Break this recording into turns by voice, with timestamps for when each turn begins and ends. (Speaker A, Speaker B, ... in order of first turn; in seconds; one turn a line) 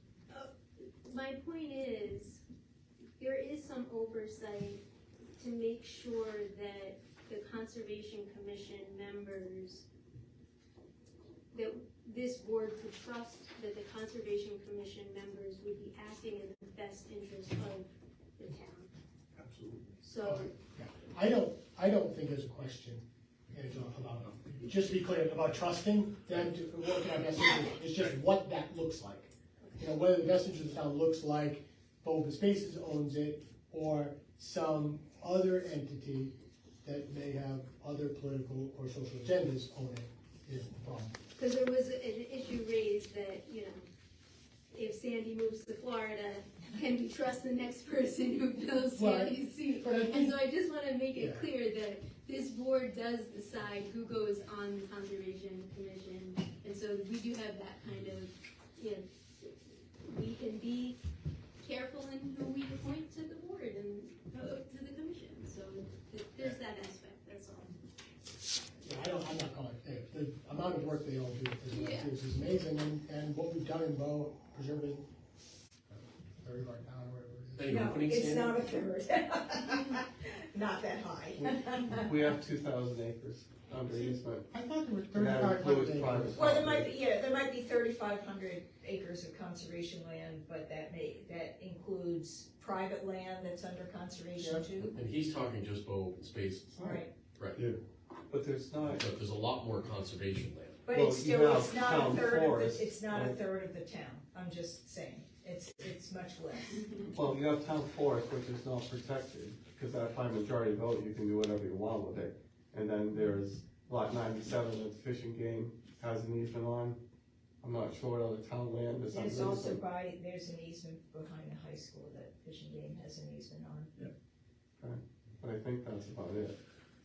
Speaker A: 0.3-2.4
Speaker A: 3.2-4.8
Speaker A: 5.4-9.8
Speaker A: 11.5-18.9
Speaker A: 20.0-20.5
Speaker B: 20.2-41.2
Speaker A: 41.4-43.8
Speaker A: 44.7-61.0
Speaker B: 48.9-50.5
Speaker B: 51.1-51.5
Speaker A: 61.6-67.8
Speaker B: 68.8-75.0
Speaker A: 71.7-72.1
Speaker B: 76.4-77.7
Speaker C: 77.6-78.6
Speaker D: 77.7-82.2
Speaker E: 81.9-84.5
Speaker B: 83.9-86.4
Speaker E: 85.2-86.9
Speaker D: 86.3-95.0
Speaker C: 94.8-96.8
Speaker D: 96.8-97.1
Speaker C: 97.3-97.6
Speaker E: 98.3-99.1
Speaker C: 98.8-100.9
Speaker D: 100.9-106.9
Speaker E: 100.9-103.4
Speaker E: 107.1-117.0
Speaker D: 113.1-113.4
Speaker E: 117.6-119.8
Speaker D: 119.1-123.9
Speaker E: 124.8-126.6